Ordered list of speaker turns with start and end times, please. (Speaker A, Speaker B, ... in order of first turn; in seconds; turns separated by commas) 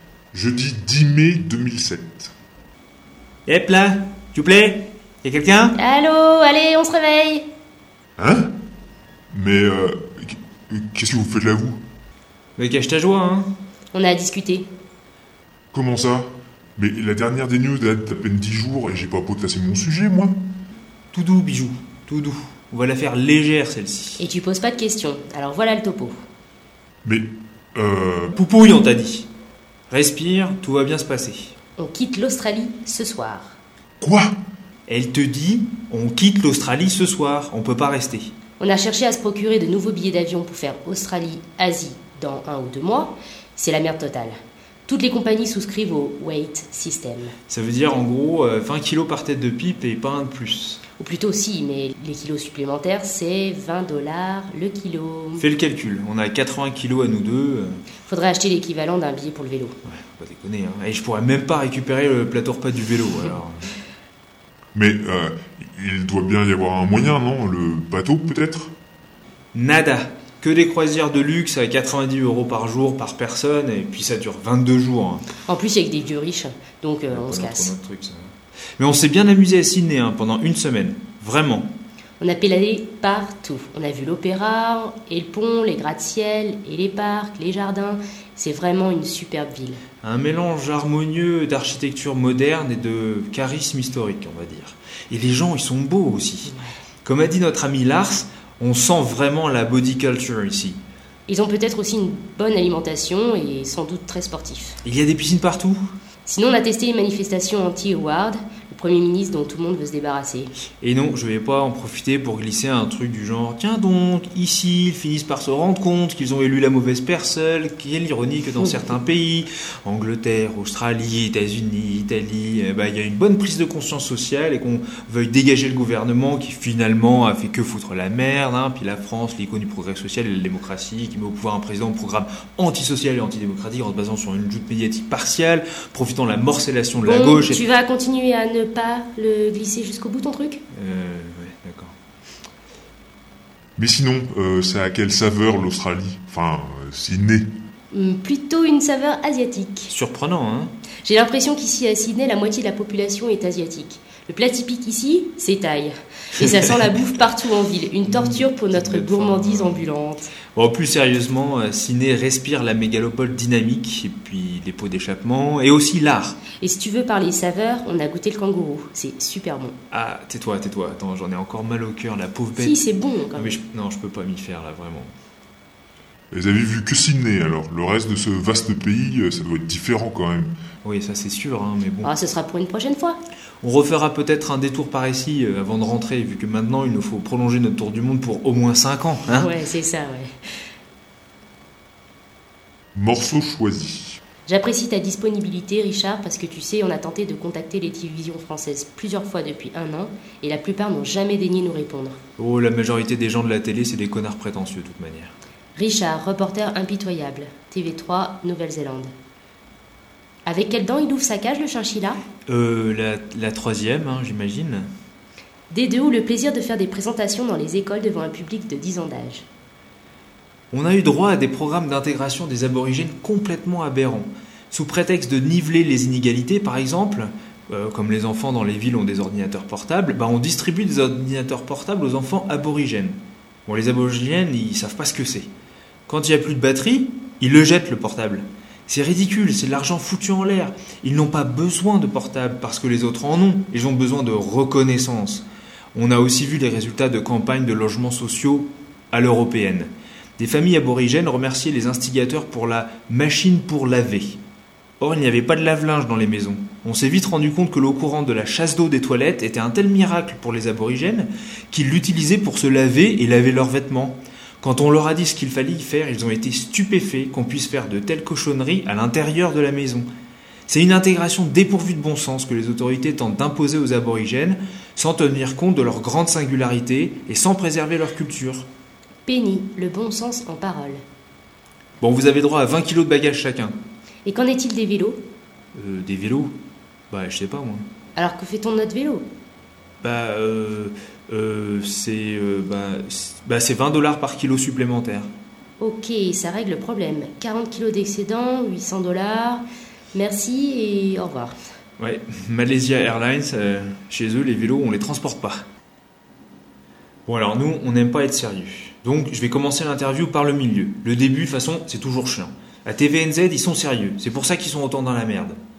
Speaker A: 0.3-2.3, Speaker B: 3.5-5.8, Speaker C: 5.7-7.5, Speaker A: 8.2-8.5, Speaker A: 9.3-11.8, Speaker B: 12.6-13.5, Speaker C: 13.9-14.7, Speaker A: 15.7-20.3, Speaker B: 21.1-24.2, Speaker C: 24.2-26.1, Speaker A: 27.0-28.3, Speaker B: 28.3-29.3, Speaker B: 29.9-31.5, Speaker C: 31.8-33.6, Speaker A: 34.0-34.4, Speaker B: 34.9-38.3, Speaker C: 38.6-44.3, Speaker C: 44.9-47.3, Speaker B: 47.5-50.8, Speaker C: 51.0-55.5, Speaker B: 55.4-57.8, Speaker C: 58.1-59.7, Speaker B: 59.9-63.7, Speaker A: 64.7-68.7, Speaker B: 69.5-75.2, Speaker C: 75.4-77.7, Speaker B: 77.1-81.7, Speaker C: 82.2-89.8, Speaker B: 90.0-96.5, Speaker B: 97.0-100.8, Speaker C: 101.3-104.8, Speaker B: 104.8-105.8, Speaker C: 106.2-110.5, Speaker B: 110.8-137.6, Speaker C: 137.0-140.6, Speaker B: 140.7-141.9, Speaker A: 143.8-147.5, Speaker C: 147.9-149.9, Speaker B: 149.9-150.7, Speaker C: 151.0-160.3, Speaker B: 158.0-159.8, Speaker B: 160.5-166.4, Speaker C: 166.6-169.7, Speaker B: 169.9-175.1, Speaker C: 172.6-173.6, Speaker A: 176.3-180.5, Speaker B: 180.8-182.1, Speaker C: 182.0-183.2, Speaker B: 183.6-189.5, Speaker C: 189.3-190.3, Speaker A: 192.9-194.2, Speaker C: 194.5-202.2, Speaker B: 202.4-205.3, Speaker C: 205.7-209.1, Speaker C: 210.4-212.2, Speaker B: 212.5-214.9, Speaker C: 215.7-219.4, Speaker B: 220.7-235.5, Speaker B: 236.1-254.4, Speaker B: 255.0-270.1, Speaker B: 270.7-278.7, Speaker C: 279.2-281.0, Speaker B: 282.0-283.8, Speaker C: 284.2-285.2, Speaker B: 285.7-286.5, Speaker B: 287.1-287.8, Speaker C: 288.1-289.3, Speaker B: 290.0-295.3, Speaker C: 295.8-301.5, Speaker B: 302.0-305.6, Speaker B: 307.3-315.6